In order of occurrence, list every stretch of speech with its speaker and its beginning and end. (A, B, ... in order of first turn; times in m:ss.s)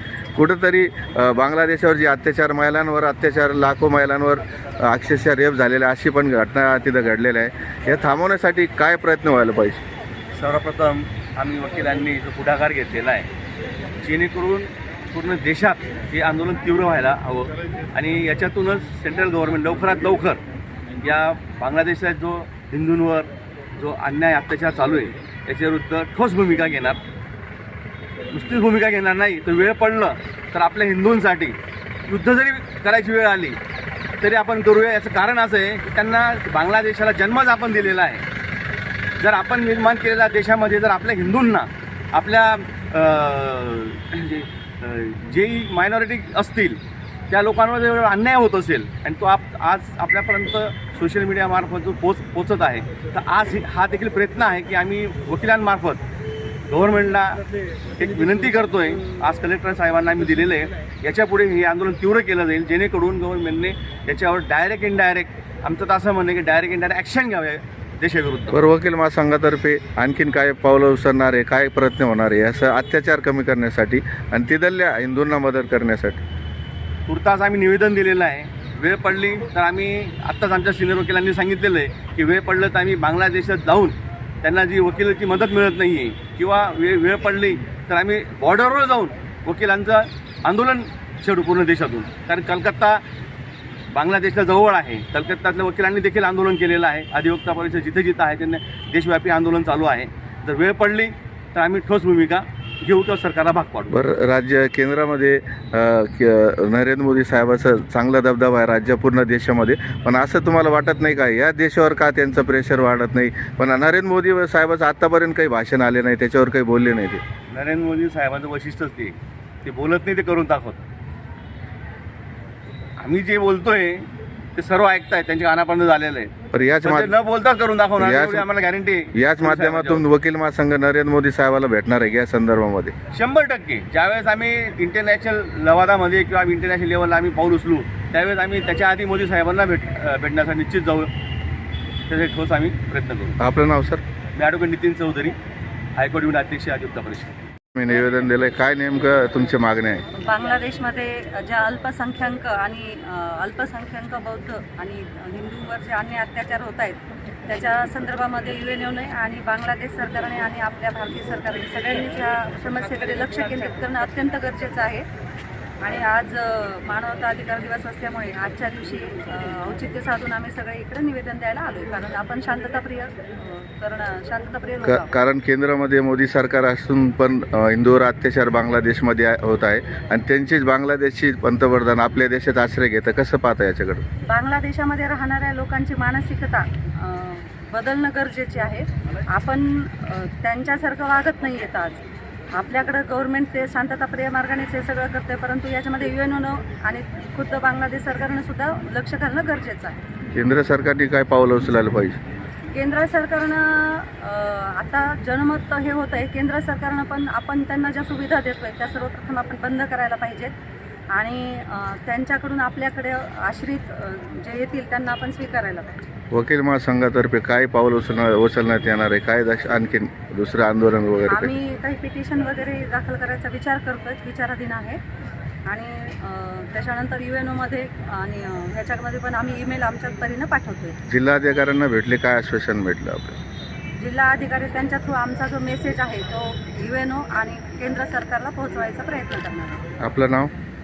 0:00.3-0:09.8 A
0:10.3-0:13.3 B
0:14.0-0:20.4 B
0:21.0-0:27.0 B
0:28.3-0:31.6 B
0:32.1-0:33.6 B
0:34.2-0:38.2 B
0:39.2-0:46.8 B
0:47.3-0:56.0 B
0:56.7-0:57.4 B
0:58.0-1:08.6 B
1:08.5-1:16.2 A
1:17.1-1:33.0 B
1:33.9-1:44.0 B
1:43.9-1:57.2 A
1:57.5-2:00.8 B
2:03.0-2:06.3 B
2:06.5-2:07.1 A
2:06.8-2:10.0 B
2:08.0-2:08.4 A
2:09.1-2:12.9 A
2:13.1-2:21.1 B
2:22.1-2:23.4 B
2:23.4-2:24.0 A
2:24.3-2:25.4 B
2:26.0-2:27.3 B
2:27.7-2:30.0 A
2:30.2-2:45.0 C
2:45.8-2:55.1 C
2:54.8-3:04.0 A
3:04.2-3:12.0 C
3:12.5-3:20.0 C
3:20.3-3:22.2 A
3:22.7-3:30.5 C
3:31.1-3:36.1 C
3:36.3-3:41.5 A
3:41.3-3:45.0 C
3:45.7-3:51.0 C
3:51.1-3:53.4 A
3:54.0-3:59.9 C
4:00.0-4:00.5 A